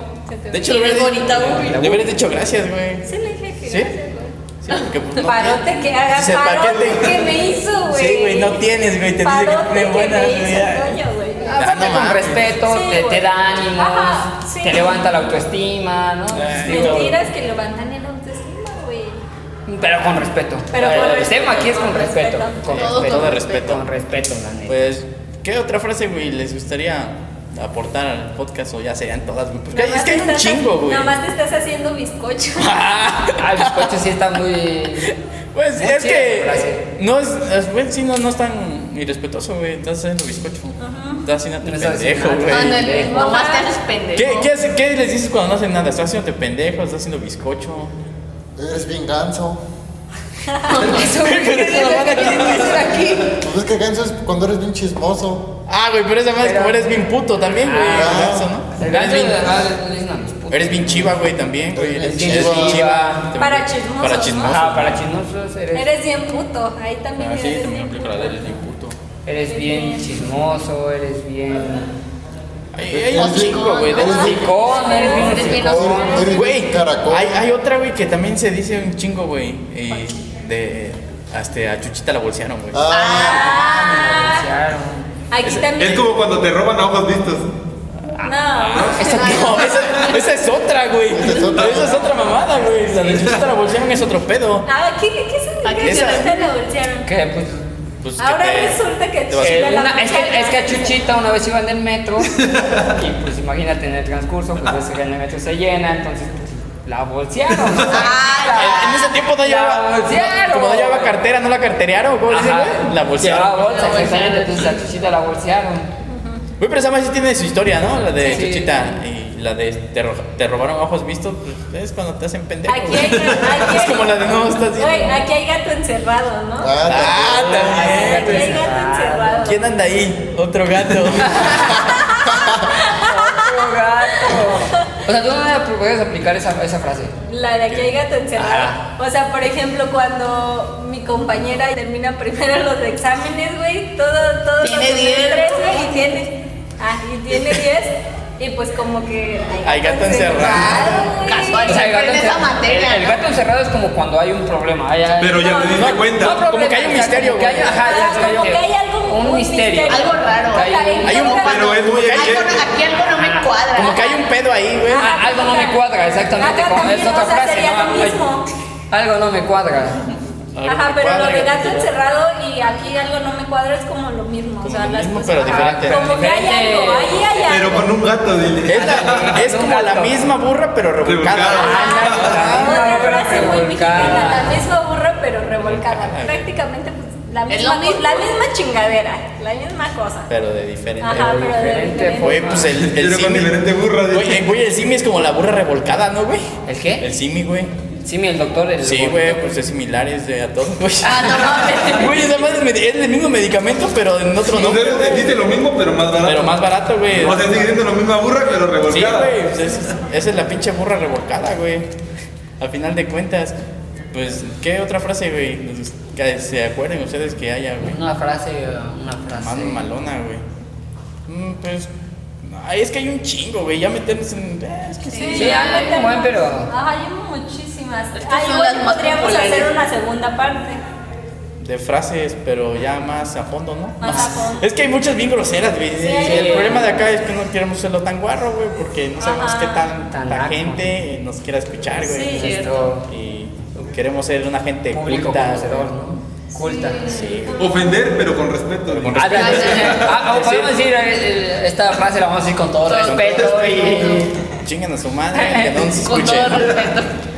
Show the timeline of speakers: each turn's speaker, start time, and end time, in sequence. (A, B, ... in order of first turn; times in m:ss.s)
0:00.3-0:01.1 A
0:00.5-0:03.1 B
0:00.6-0:01.9 C
0:01.5-0:02.2 D
0:03.0-0:04.3 A
0:03.7-0:03.9 B
0:04.6-0:10.9 B
0:05.2-0:08.6 A
0:09.2-0:11.5 A
0:11.4-0:17.2 D
0:11.5-0:12.5 B
0:12.7-0:15.1 A
0:16.3-0:17.1 B
0:16.7-0:19.2 A
0:19.7-0:24.9 D
0:20.7-0:22.8 A
0:20.8-0:21.6 B
0:22.7-0:23.8 B
0:22.8-0:23.5 C
0:24.7-0:31.1 B
0:29.7-0:32.8 A
0:32.6-0:33.9 B
0:33.4-0:35.1 D
0:35.5-0:43.0 B
0:35.8-0:36.8 D
0:40.8-0:41.2 A
0:41.6-0:43.2 D
0:42.5-0:44.5 C
0:43.1-0:43.7 A
0:44.2-0:47.9 B
0:48.6-0:49.6 E
0:50.7-0:53.4 D
0:50.7-0:51.1 C
0:51.1-0:53.2 B
0:53.3-0:55.4 E
0:55.7-0:59.4 B
0:56.4-0:56.9 D
0:57.6-1:01.2 D
0:57.9-0:58.5 E
1:00.5-1:05.0 B
1:01.7-1:02.9 E
1:02.1-1:03.3 D
1:03.4-1:04.5 A
1:04.4-1:05.9 D
1:05.8-1:08.5 A
1:07.2-1:09.0 B
1:09.3-1:11.9 D
1:09.5-1:10.1 A
1:12.7-1:14.4 B
1:12.9-1:14.5 E
1:13.1-1:16.3 C
1:14.0-1:16.0 A
1:14.1-1:16.3 D
1:15.4-1:17.5 E
1:16.4-1:22.9 B
1:22.7-1:23.3 E
1:22.9-1:24.2 C
1:23.1-1:25.1 D
1:23.2-1:24.5 A
1:25.3-1:26.1 A
1:25.4-1:25.8 B
1:25.8-1:27.5 F
1:28.2-1:29.7 A
1:28.6-1:34.7 B
1:29.1-1:30.2 C
1:31.1-1:32.2 E
1:34.7-1:37.1 A
1:35.6-1:36.5 C
1:35.8-1:36.3 B
1:37.1-1:37.6 D
1:38.0-1:38.8 B
1:38.2-1:41.0 A
1:39.3-1:39.9 B
1:39.4-1:51.2 D
1:42.4-1:42.8 F
1:47.9-1:49.1 C
1:48.6-1:53.6 B
1:52.3-1:55.9 D
1:53.6-1:54.9 C
1:56.1-1:56.4 A
1:56.6-2:05.2 B
1:58.2-1:58.5 A
1:58.2-1:58.8 D
2:02.7-2:06.8 A
2:06.6-2:07.8 E
2:06.9-2:08.6 B
2:07.4-2:09.5 D
2:07.8-2:09.7 A
2:09.4-2:12.1 B
2:11.8-2:14.8 A
2:12.8-2:17.2 D
2:17.3-2:31.8 A
2:18.4-2:18.8 D
2:24.6-2:26.1 C
2:29.6-2:31.1 B
2:30.5-2:33.2 C
2:31.7-2:41.2 D
2:35.2-2:36.4 F
2:35.4-2:35.8 A
2:35.8-2:38.2 B
2:37.9-2:41.9 A
2:39.9-2:44.0 C
2:41.1-2:42.7 B
2:41.4-2:42.6 F
2:43.1-2:43.5 D
2:43.7-2:45.2 B
2:43.8-2:44.3 A
2:44.9-2:45.8 A
2:45.0-2:48.2 D
2:46.4-2:48.5 A
2:48.9-2:50.0 D
2:50.6-2:51.9 B
2:50.7-2:57.8 A
2:54.6-2:56.4 B
2:55.4-2:57.9 D
2:57.5-2:59.4 F
2:58.7-3:03.6 B
2:58.7-3:00.2 D
3:01.0-3:02.6 F
3:01.5-3:04.6 D
3:01.6-3:10.3 A
3:05.6-3:06.5 B
3:07.5-3:08.3 C
3:10.3-3:11.5 B
3:11.0-3:12.7 A
3:11.1-3:12.7 D
3:12.1-3:16.5 B
3:12.9-3:14.4 F
3:16.7-3:17.0 D
3:17.0-3:17.7 B
3:18.0-3:19.5 D
3:18.8-3:25.4 B
3:21.0-3:22.3 C
3:24.5-3:29.3 F
3:26.2-3:27.8 B
3:28.9-3:31.9 B
3:32.6-3:33.6 B
3:34.1-3:38.0 B
3:37.8-3:39.9 D
3:39.4-3:40.4 B
3:41.3-3:41.9 B
3:42.4-3:45.6 B
3:45.1-3:46.0 C
3:45.1-3:50.8 A
3:45.3-3:46.7 D
3:48.2-3:49.8 C
3:51.6-4:05.9 B
3:54.0-3:54.7 A
3:54.0-3:54.4 D
3:56.0-3:56.9 A
3:56.2-3:56.9 D
3:59.2-3:59.9 A
4:00.1-4:00.8 D
4:02.0-4:02.6 A
4:02.3-4:03.1 D
4:02.4-4:02.8 C
4:04.9-4:07.0 D
4:06.6-4:07.5 C
4:07.1-4:07.8 B
4:07.6-4:10.1 F
4:08.9-4:10.7 B
4:09.2-4:14.3 D
4:09.4-4:10.0 C
4:12.9-4:14.2 C
4:13.0-4:13.9 B
4:14.6-4:16.8 B
4:15.3-4:16.0 D
4:16.0-4:17.1 C